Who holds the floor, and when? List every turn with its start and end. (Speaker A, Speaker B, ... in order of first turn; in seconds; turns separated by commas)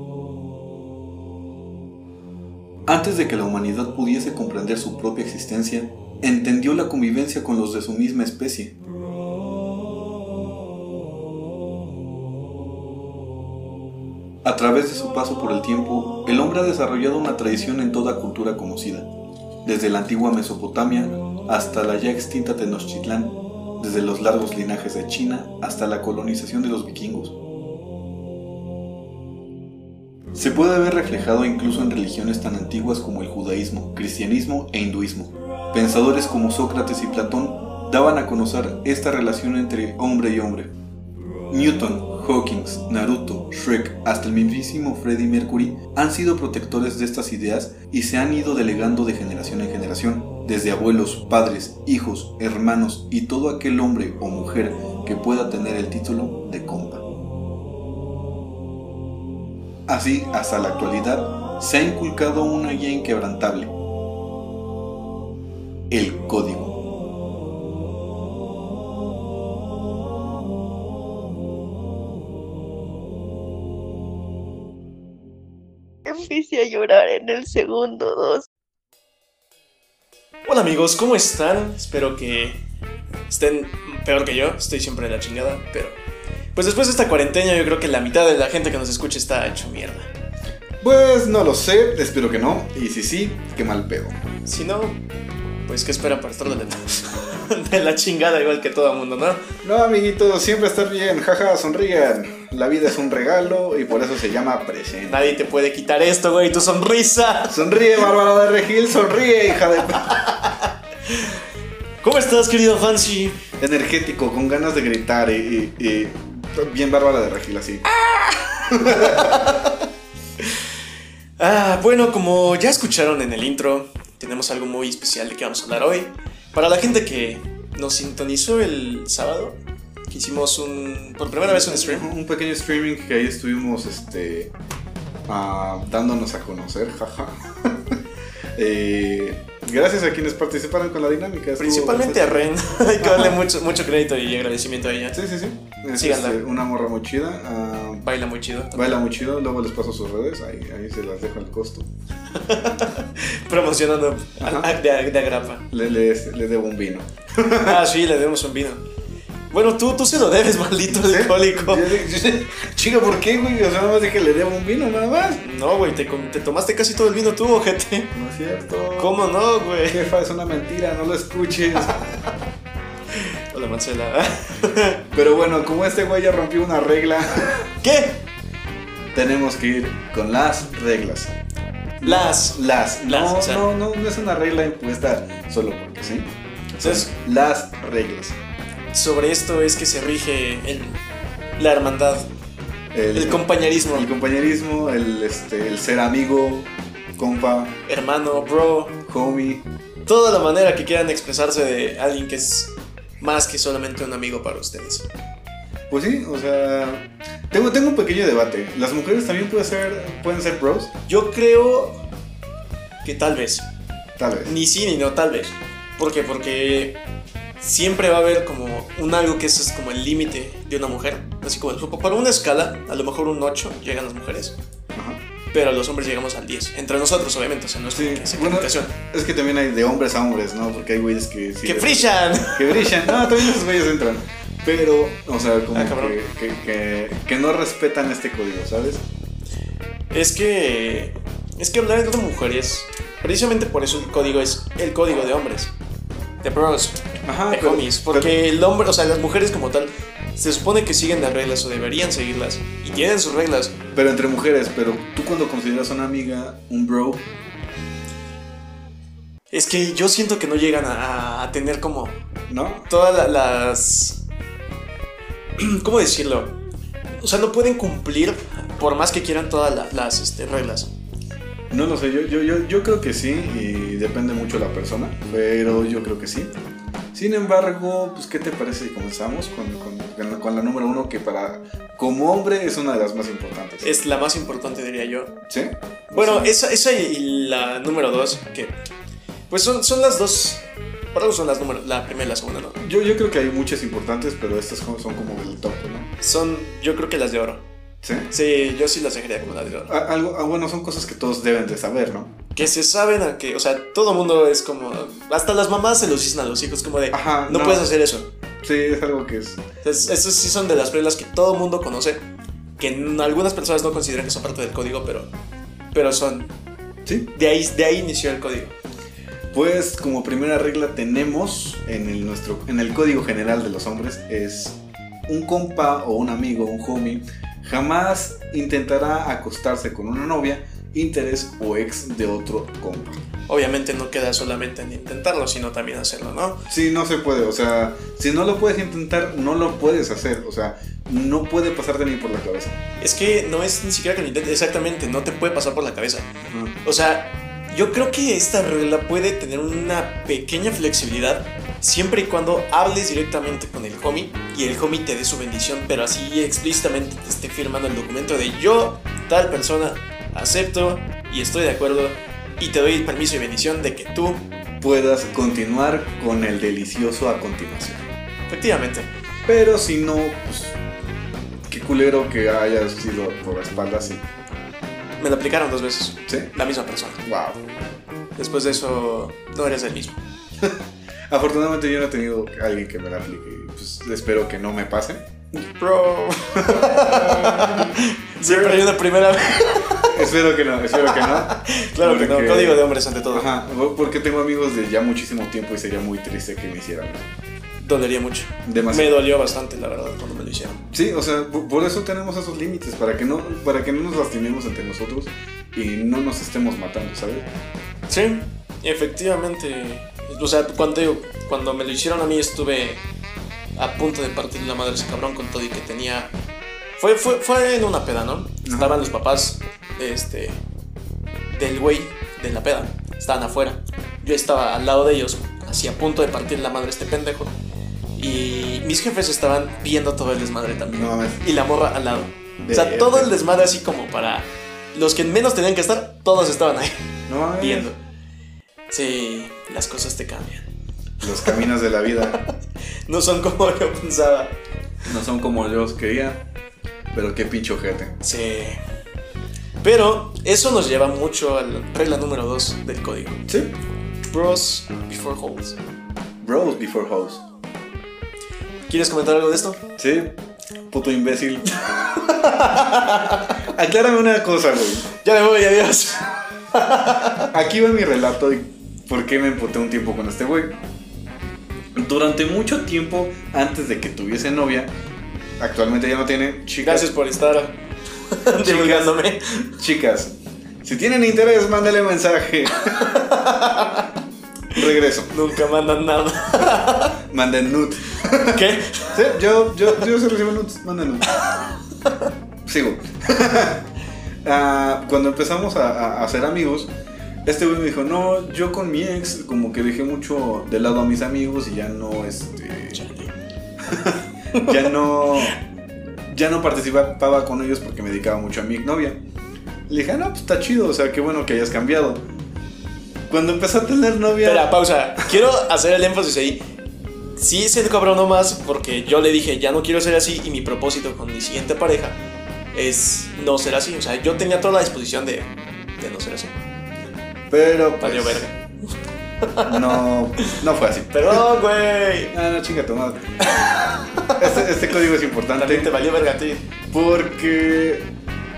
Speaker A: 2.9-8.7, Speaker A: 14.4-19.1, Speaker A: 19.6-27.4, Speaker A: 30.3-40.7, Speaker A: 41.5-57.0, Speaker A: 59.9-63.8, Speaker A: 65.9-66.8, Speaker B: 76.0-78.5, Speaker C: 80.4-82.6, Speaker C: 83.3-86.0, Speaker C: 86.5-90.1, Speaker A: 90.8-94.2, Speaker C: 94.4-95.0, Speaker C: 95.7-99.4, Speaker A: 99.6-105.3, Speaker C: 105.0-107.8, Speaker A: 107.5-110.2, Speaker C: 110.1-111.4, Speaker C: 112.0-113.4, Speaker A: 113.6-117.8, Speaker C: 118.1-119.8, Speaker A: 118.5-119.6, Speaker C: 121.4-129.6, Speaker C: 130.1-132.1, Speaker A: 131.4-134.5, Speaker A: 135.3-138.0, Speaker A: 138.6-143.4, Speaker C: 141.6-145.2, Speaker A: 145.1-148.1, Speaker C: 146.0-146.4, Speaker C: 148.0-149.0, Speaker A: 148.7-151.9, Speaker C: 152.3-155.6, Speaker A: 154.4-154.7, Speaker A: 155.7-157.8, Speaker C: 157.6-158.8, Speaker C: 159.5-162.0, Speaker A: 160.9-165.4, Speaker C: 165.4-168.1, Speaker A: 168.1-169.2, Speaker C: 168.9-170.0, Speaker A: 169.9-172.0, Speaker C: 173.1-175.0, Speaker A: 175.1-177.7, Speaker C: 177.8-178.2, Speaker A: 179.1-181.3, Speaker A: 182.0-186.3, Speaker C: 182.0-183.7, Speaker C: 186.8-187.1, Speaker A: 186.8-188.4, Speaker C: 188.9-191.0, Speaker C: 191.6-192.3, Speaker A: 192.9-197.8, Speaker C: 193.1-194.1, Speaker C: 197.8-199.0, Speaker A: 199.1-199.7, Speaker C: 200.1-205.1, Speaker A: 205.9-210.9, Speaker C: 211.1-212.0, Speaker C: 213.0-213.7, Speaker A: 214.2-214.5, Speaker C: 214.4-217.0, Speaker C: 217.6-224.6, Speaker A: 224.9-225.2, Speaker C: 225.5-228.9, Speaker A: 227.9-239.0, Speaker C: 231.6-233.5, Speaker C: 235.7-236.2, Speaker C: 240.1-245.7, Speaker C: 246.4-253.8, Speaker A: 247.2-248.3, Speaker A: 253.9-257.2, Speaker C: 259.5-262.1, Speaker A: 262.5-262.9, Speaker C: 262.9-264.2, Speaker C: 265.6-266.6, Speaker C: 267.1-270.9, Speaker A: 271.7-276.5, Speaker A: 277.1-283.9, Speaker C: 283.8-285.4, Speaker A: 285.5-286.5, Speaker C: 286.1-288.8, Speaker C: 289.5-292.8, Speaker A: 292.8-296.1, Speaker C: 296.2-297.6, Speaker A: 298.0-298.3, Speaker C: 298.3-299.9, Speaker A: 299.9-302.3, Speaker C: 302.5-308.3, Speaker A: 307.1-307.9, Speaker A: 308.6-309.6, Speaker C: 309.8-312.2, Speaker C: 312.8-315.3, Speaker C: 315.9-316.5, Speaker C: 317.3-318.7, Speaker A: 319.5-333.2, Speaker C: 333.5-336.6, Speaker A: 336.7-342.8, Speaker C: 343.0-346.3, Speaker A: 346.4-346.7, Speaker C: 346.8-364.4, Speaker A: 364.8-368.0, Speaker C: 368.5-369.1, Speaker A: 369.4-370.8, Speaker A: 371.7-374.2, Speaker C: 375.2-377.2, Speaker A: 377.2-377.6, Speaker C: 378.4-380.2, Speaker A: 381.3-388.9, Speaker C: 386.4-390.3, Speaker A: 390.0-397.2, Speaker C: 390.9-393.5, Speaker C: 397.8-400.8, Speaker A: 398.6-399.2, Speaker A: 400.9-407.5, Speaker C: 408.1-413.0, Speaker C: 413.8-416.3, Speaker C: 417.0-420.6, Speaker A: 418.6-419.0, Speaker C: 421.5-427.6, Speaker C: 428.1-437.0, Speaker A: 430.9-431.4, Speaker A: 432.6-433.3, Speaker A: 437.3-437.9, Speaker C: 437.6-438.0, Speaker C: 438.9-440.7, Speaker A: 441.2-442.4, Speaker C: 443.1-444.6, Speaker A: 445.1-446.4, Speaker A: 447.1-448.2, Speaker C: 448.2-448.8, Speaker C: 449.8-453.4, Speaker A: 453.5-453.7, Speaker C: 454.3-455.8, Speaker A: 456.4-457.4, Speaker C: 458.9-459.8, Speaker A: 460.0-460.4, Speaker A: 460.9-462.1, Speaker C: 462.1-463.6, Speaker A: 463.6-465.0, Speaker C: 465.1-467.5, Speaker A: 467.5-470.8, Speaker A: 471.9-474.9, Speaker A: 475.6-477.1, Speaker C: 476.8-477.8, Speaker C: 478.3-479.7, Speaker A: 478.6-483.1, Speaker C: 482.9-484.1, Speaker A: 484.7-485.3, Speaker C: 485.3-487.2, Speaker A: 487.3-491.3, Speaker C: 488.4-489.1, Speaker C: 491.4-492.2, Speaker A: 492.6-493.9, Speaker A: 494.4-496.9, Speaker A: 497.4-503.0, Speaker C: 502.9-503.3, Speaker A: 503.8-505.6, Speaker A: 506.3-509.2, Speaker A: 509.9-512.2, Speaker A: 513.3-514.7, Speaker C: 514.4-516.7, Speaker C: 517.4-522.2, Speaker C: 522.7-526.5, Speaker A: 527.5-528.5, Speaker C: 528.0-528.5, Speaker C: 529.4-529.8, Speaker A: 529.6-531.4, Speaker C: 531.1-532.3, Speaker A: 532.3-533.2, Speaker C: 533.5-534.5, Speaker A: 534.3-535.9, Speaker C: 535.5-536.6, Speaker A: 536.9-538.1